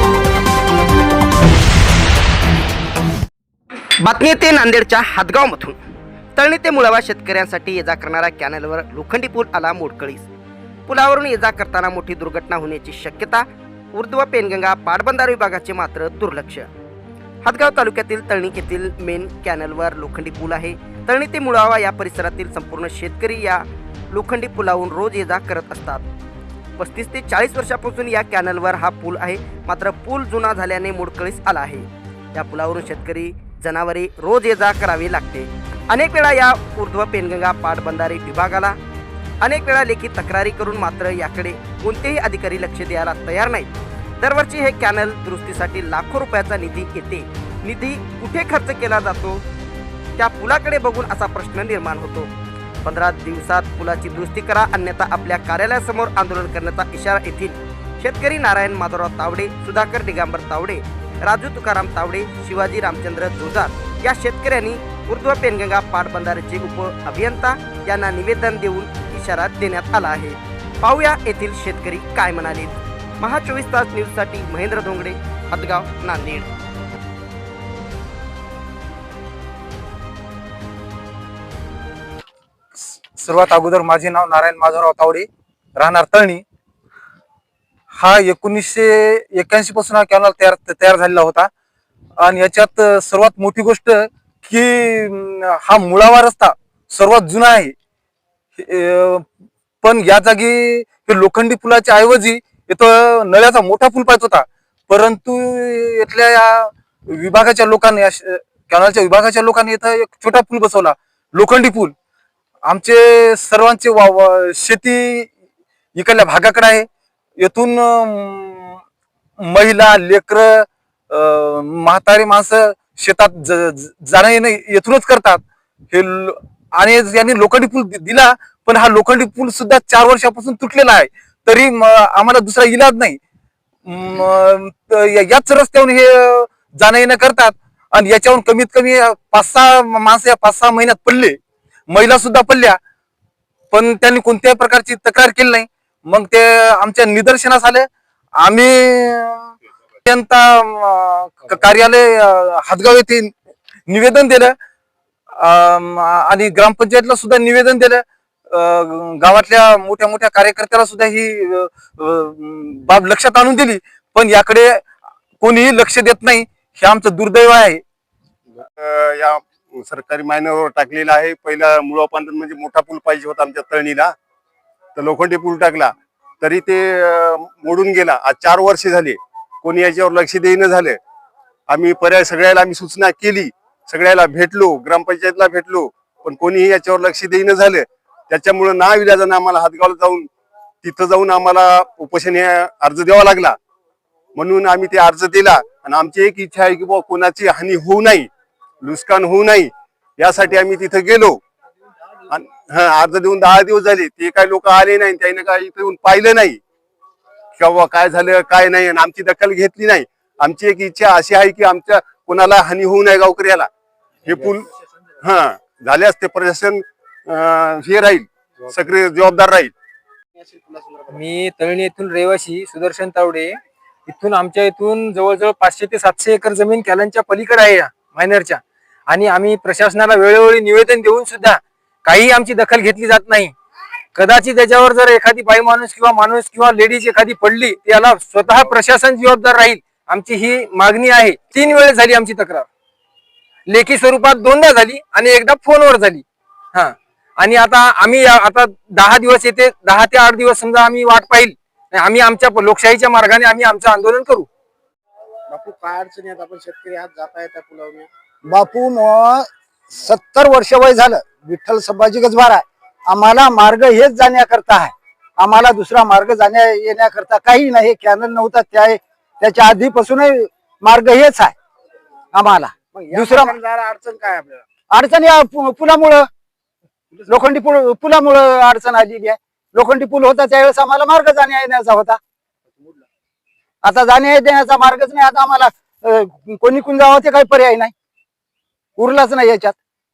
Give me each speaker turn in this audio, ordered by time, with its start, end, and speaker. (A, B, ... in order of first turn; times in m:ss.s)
0:04.0-0:05.8 A
0:06.4-0:10.3 A
0:10.9-0:13.4 A
0:14.0-0:16.7 A
0:17.4-0:23.6 A
0:24.1-0:26.0 A
0:26.8-0:38.8 A
0:39.4-0:49.4 A
0:50.2-0:52.3 A
0:52.8-1:16.5 A
1:22.8-1:26.4 B
1:27.9-1:31.5 B
1:32.2-1:37.7 B
1:38.6-1:39.2 B
1:39.8-1:51.9 B
1:52.6-1:55.3 B
1:56.0-1:56.9 B
1:57.4-1:58.8 B
1:59.4-2:13.2 B
2:13.8-2:21.4 B
2:21.9-2:22.8 B
2:23.7-2:29.5 B
2:30.0-2:33.3 B
2:33.9-2:34.5 B
2:35.4-2:44.8 B
2:45.4-2:47.8 B
2:48.6-2:54.1 C
2:55.0-3:01.0 C
3:01.7-3:10.3 C
3:10.8-3:13.6 C
3:14.4-3:18.3 C
3:18.8-3:21.4 C
3:22.3-3:26.6 C
3:27.6-3:33.7 C
3:34.2-3:34.7 C
3:35.2-3:39.7 C
3:40.7-3:41.0 D
3:41.2-3:43.5 E
3:44.1-3:48.6 E
3:44.6-3:45.0 B
3:45.6-3:48.2 B
3:49.1-3:49.9 E
3:49.4-3:51.0 B
3:50.6-3:53.5 E
3:54.2-4:00.1 E
3:54.7-3:55.2 B
3:56.4-3:57.7 B
3:58.5-3:59.3 B
3:59.9-4:00.4 B
4:00.6-4:02.6 E
4:01.5-4:02.5 B
4:03.7-4:06.1 E
4:04.8-4:06.2 B
4:07.4-4:14.4 E
4:07.4-4:10.0 B
4:10.9-4:11.2 B
4:12.0-4:12.4 B
4:13.4-4:14.2 B
4:15.5-4:18.1 D
4:18.5-4:31.5 F
4:32.3-4:33.6 F
4:32.9-4:34.6 D
4:34.9-4:36.3 F
4:37.3-4:42.2 F
4:43.8-4:47.9 F
4:49.0-4:49.8 F